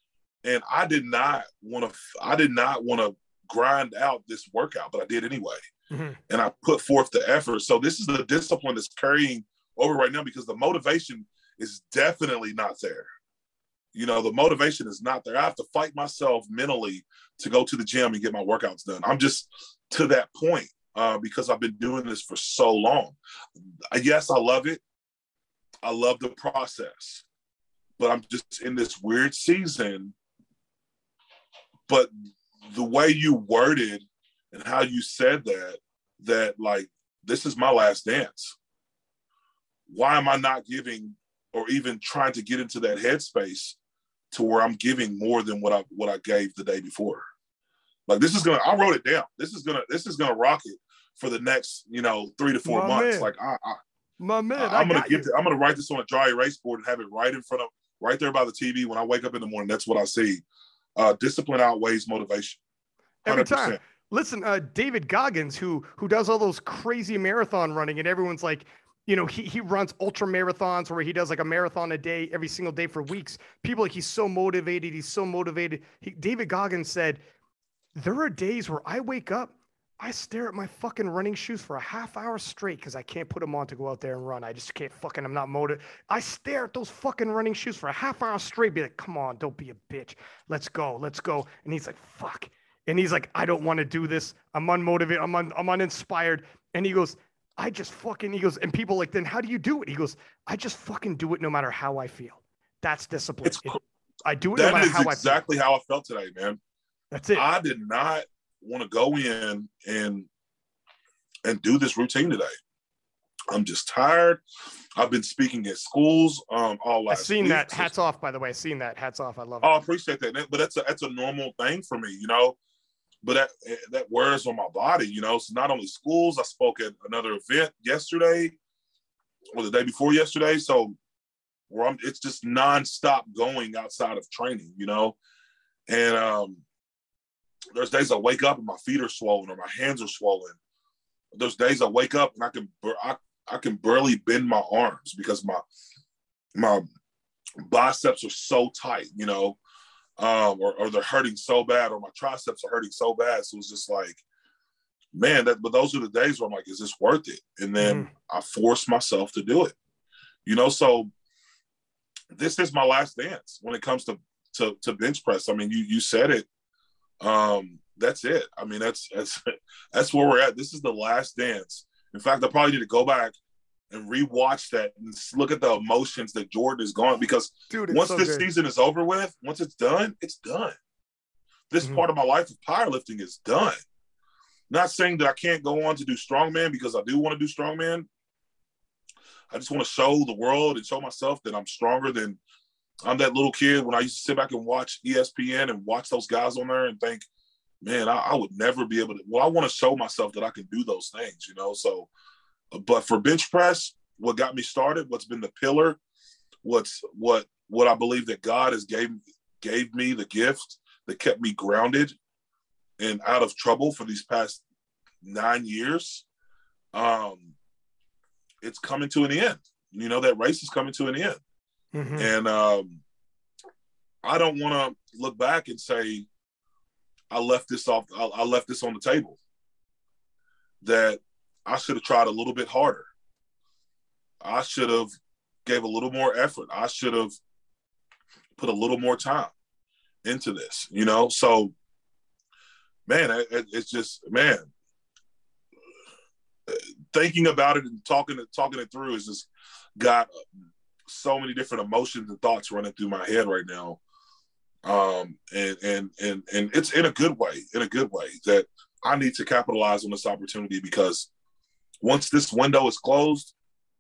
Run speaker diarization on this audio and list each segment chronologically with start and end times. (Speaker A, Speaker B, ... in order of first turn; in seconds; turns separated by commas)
Speaker A: 0.4-5.6, Speaker B: 5.9-6.2, Speaker A: 6.3-13.1, Speaker A: 13.9-23.2, Speaker A: 23.9-24.8, Speaker A: 25.8-27.2, Speaker A: 28.0-30.1, Speaker A: 32.6-38.5, Speaker A: 39.9-43.8, Speaker A: 44.3-47.2, Speaker A: 48.1-53.8, Speaker B: 52.7-53.3, Speaker B: 54.2-55.3, Speaker A: 54.5-60.4, Speaker A: 61.0-62.6, Speaker B: 63.2-77.2, Speaker A: 63.3-63.8, Speaker B: 78.0-105.4, Speaker A: 103.5-103.7, Speaker A: 104.5-106.6, Speaker B: 107.1-107.5, Speaker A: 107.3-110.3, Speaker A: 111.5-112.5, Speaker A: 113.5-114.4, Speaker A: 115.0-117.9, Speaker B: 117.1-119.8, Speaker A: 119.6-122.6, Speaker A: 123.2-128.6, Speaker A: 129.6-131.0, Speaker A: 131.7-135.2, Speaker A: 135.9-136.6, Speaker A: 137.8-140.6, Speaker A: 141.3-145.6, Speaker A: 146.6-146.9, Speaker A: 147.6-149.6, Speaker A: 150.2-154.2, Speaker A: 155.1-159.8, Speaker B: 157.8-158.1, Speaker A: 160.4-161.1, Speaker A: 162.3-166.5, Speaker A: 167.2-173.4, Speaker A: 173.9-180.8, Speaker B: 177.7-178.5, Speaker A: 181.7-183.8, Speaker A: 184.7-188.1, Speaker A: 189.5-192.4, Speaker A: 193.0-197.3, Speaker A: 197.8-202.1, Speaker A: 202.7-206.0, Speaker A: 206.6-212.2, Speaker A: 213.0-214.6, Speaker A: 215.2-216.2, Speaker A: 216.9-217.6, Speaker A: 218.6-221.4, Speaker B: 221.9-222.3, Speaker A: 222.2-223.0, Speaker A: 224.2-226.3, Speaker A: 227.3-229.4, Speaker A: 230.8-233.1, Speaker A: 234.4-235.1, Speaker A: 235.7-237.4, Speaker A: 238.6-239.5, Speaker A: 240.2-241.7, Speaker A: 243.1-244.7, Speaker A: 246.7-249.5, Speaker A: 250.0-254.0, Speaker A: 254.8-261.3, Speaker A: 262.0-263.5